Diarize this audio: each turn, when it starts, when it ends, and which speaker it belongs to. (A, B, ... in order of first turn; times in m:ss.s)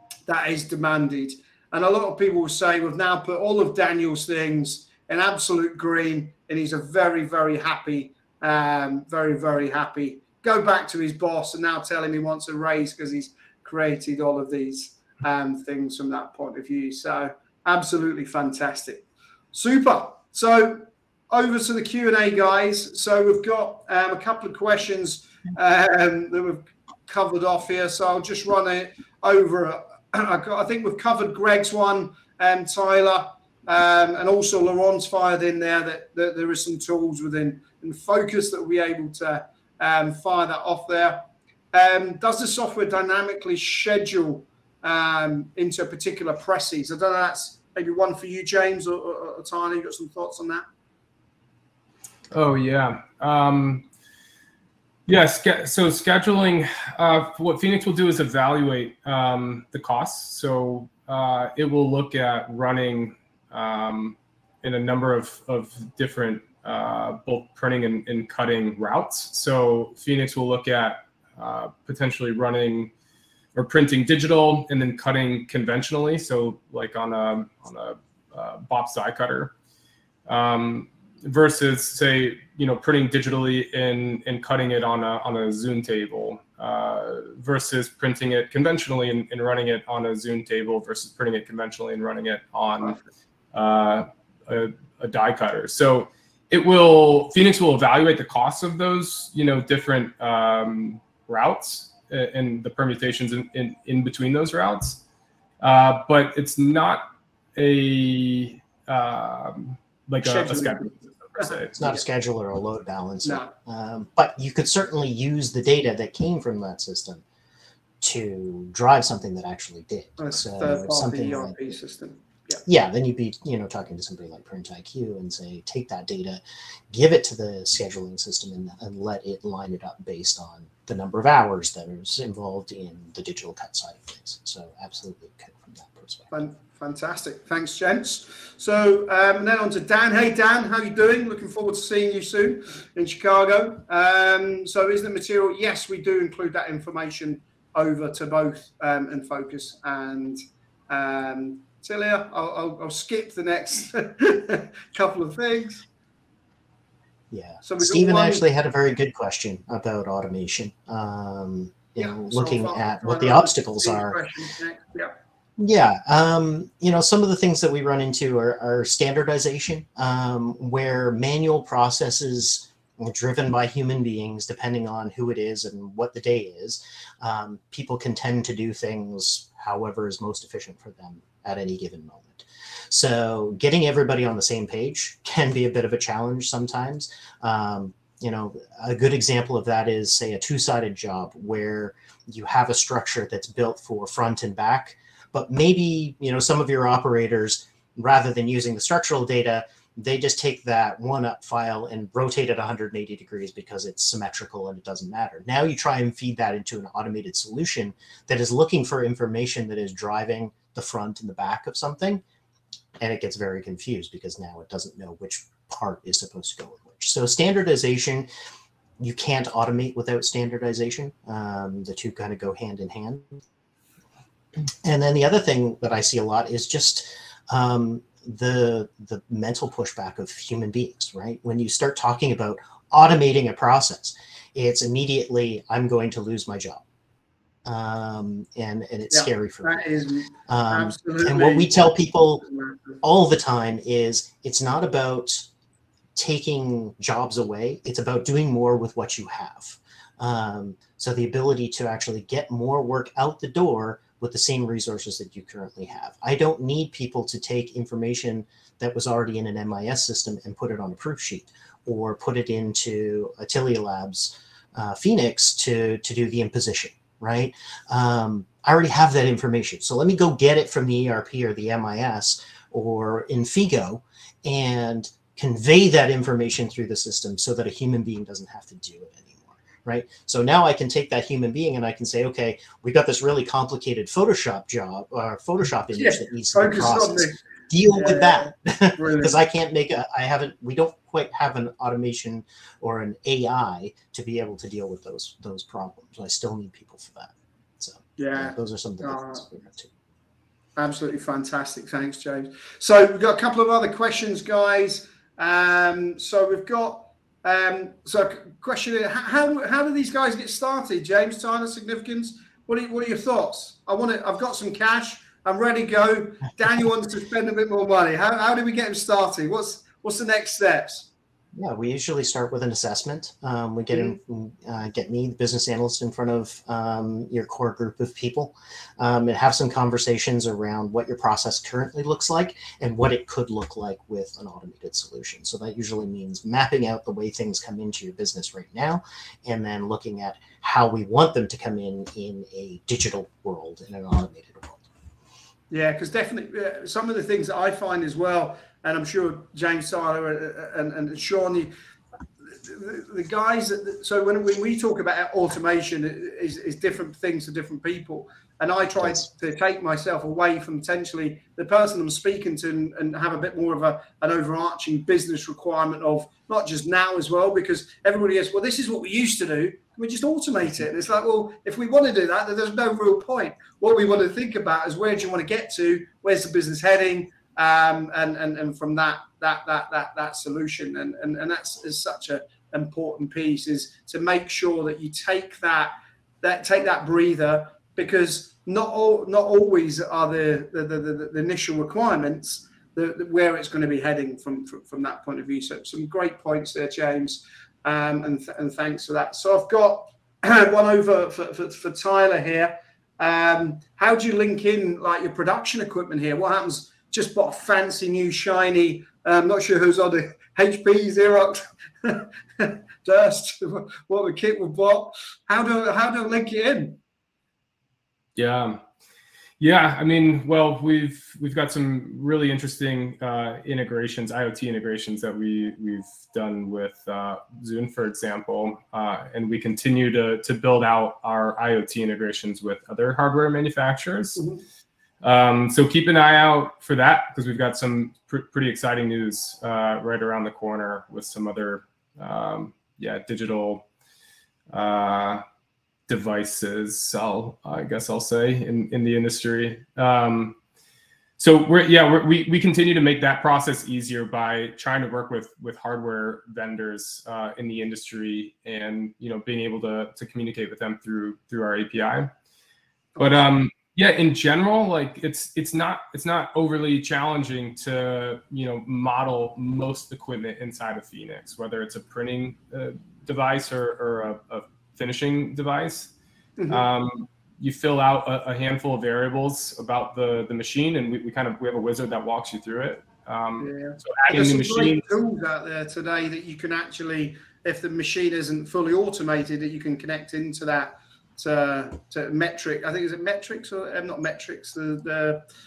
0:00.3-0:50.6 A
0:52.3-0:53.9 B
0:55.1-1:12.9 B
1:13.6-1:19.5 B
1:20.3-1:33.0 B
1:33.5-1:45.0 B
1:45.6-1:52.0 B
1:50.2-1:51.6 A
1:51.8-1:57.2 C
1:53.2-1:53.5 A
1:58.0-2:01.8 C
2:00.2-2:02.6 A
2:02.6-2:16.3 C
2:16.3-2:35.9 A
2:37.3-2:44.2 C
2:37.6-2:38.4 A
2:42.0-2:45.1 A
2:45.6-3:32.2 C
3:33.0-3:38.3 C
3:39.0-3:43.4 C
3:44.8-3:56.8 C
3:57.6-3:59.8 C
3:59.1-4:03.0 A
4:00.5-4:02.4 C
4:03.0-4:05.5 C
4:06.2-4:59.9 C
4:45.9-4:49.3 A
4:58.2-4:59.4 A
5:00.8-5:21.1 A
5:21.6-5:44.9 C
5:45.7-5:51.7 A
5:52.5-6:57.0 A
6:58.4-6:58.8 B
6:59.6-7:14.4 B
7:15.2-7:23.8 B
7:24.7-7:25.4 B
7:26.1-7:30.6 B
7:31.4-7:42.3 B
7:43.2-7:43.5 A
7:43.2-7:56.1 B
7:56.6-7:56.9 A
7:56.7-8:05.1 B
8:03.6-8:15.4 A